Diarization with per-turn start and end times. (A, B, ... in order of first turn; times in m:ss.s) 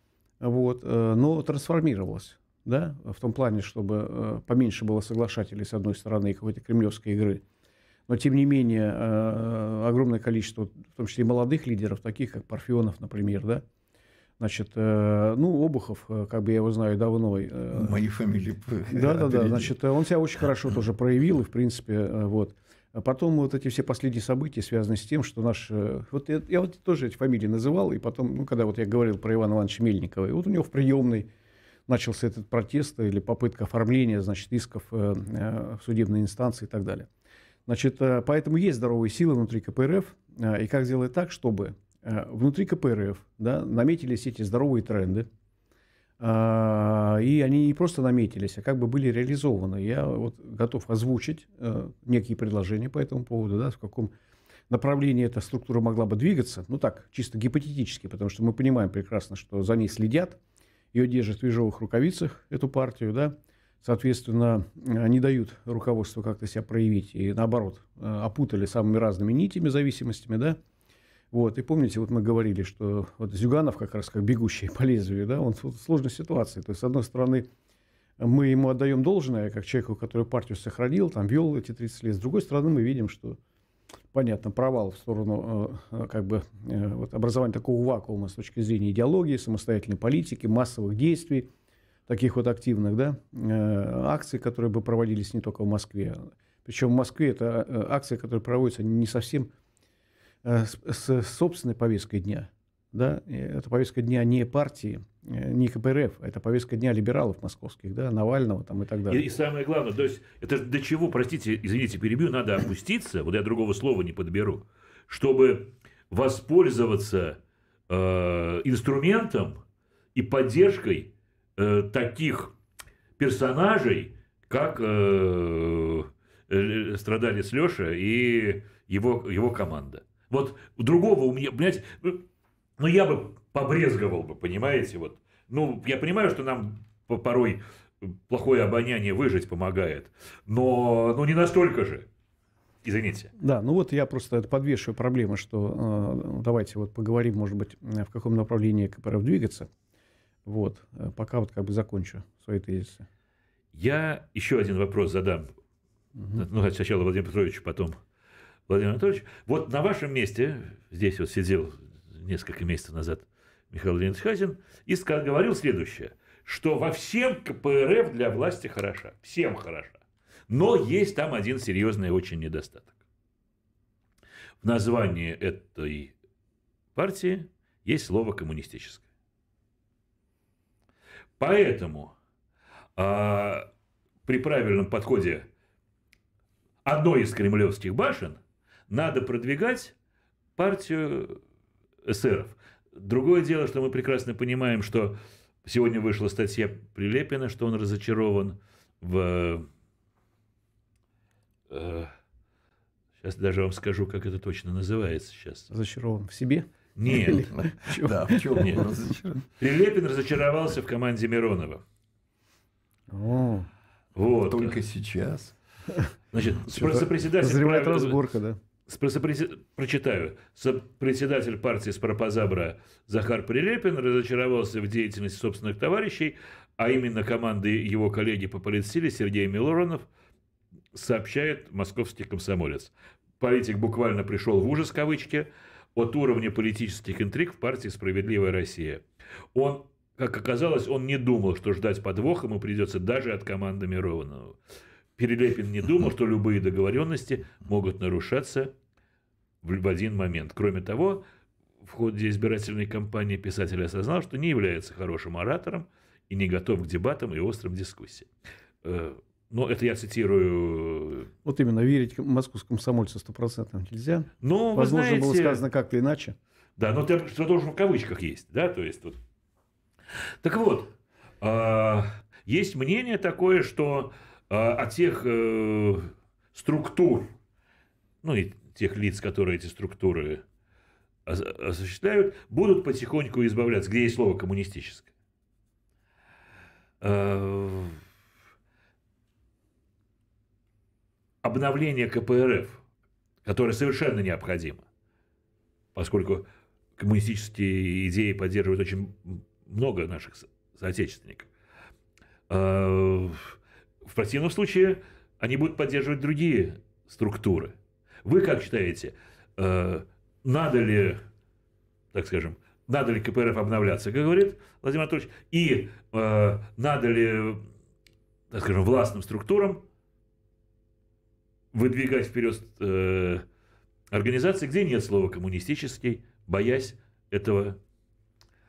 0:00.4-0:07.4 A
0:08.1-0:13.6 A
0:14.4-0:18.0 A
0:17.7-0:19.7 B
0:18.9-0:31.3 A
0:31.9-0:37.1 A
0:37.7-0:45.3 A
0:46.2-0:54.1 A
0:54.7-1:00.4 A
1:00.9-1:10.6 A
1:11.3-1:17.5 A
1:18.2-1:23.4 A
1:24.1-1:31.5 A
1:32.1-1:39.5 A
1:40.4-1:49.2 A
1:49.1-1:57.4 C
1:57.9-1:59.6 C
2:00.1-2:02.5 C
2:03.2-2:12.2 C
2:12.8-2:22.1 C
2:22.8-2:23.3 C
2:23.4-2:29.7 A
2:30.4-2:33.0 A
2:33.7-2:35.5 C
2:36.3-2:38.0 C
2:38.7-2:52.9 C
2:54.6-2:56.1 C
2:56.9-2:59.0 C
3:01.4-3:02.1 C
3:03.0-3:03.7 C
3:04.2-3:05.5 C
3:06.8-3:09.9 C
3:10.6-3:11.4 C
3:12.0-3:19.7 C
3:21.7-3:22.1 C
3:23.2-3:25.7 C
3:25.7-3:28.8 A
3:27.0-3:27.5 C
3:27.5-3:29.4 B
3:29.6-3:31.8 C
3:33.1-3:33.7 A
3:34.1-3:34.8 C
3:34.5-3:35.5 B
3:36.3-3:38.2 C
3:36.6-3:38.6 A
3:38.9-3:50.0 C
3:50.9-4:04.6 C
4:05.2-4:08.7 C
4:09.6-4:11.2 C
4:11.8-4:18.3 C
4:18.8-4:21.3 C
4:21.4-4:26.4 A
4:24.4-4:25.6 C
4:26.8-4:29.2 C
4:30.4-4:37.3 C
4:38.2-4:40.4 C
4:41.2-4:45.1 C
4:47.0-4:48.0 C
4:51.4-4:52.8 C
4:53.4-4:54.8 C
4:55.9-4:56.4 C
4:57.0-5:01.5 C
5:02.5-5:11.2 C
5:12.1-5:17.6 C
5:18.5-5:19.8 C
5:21.7-5:23.4 C
5:24.1-5:27.8 C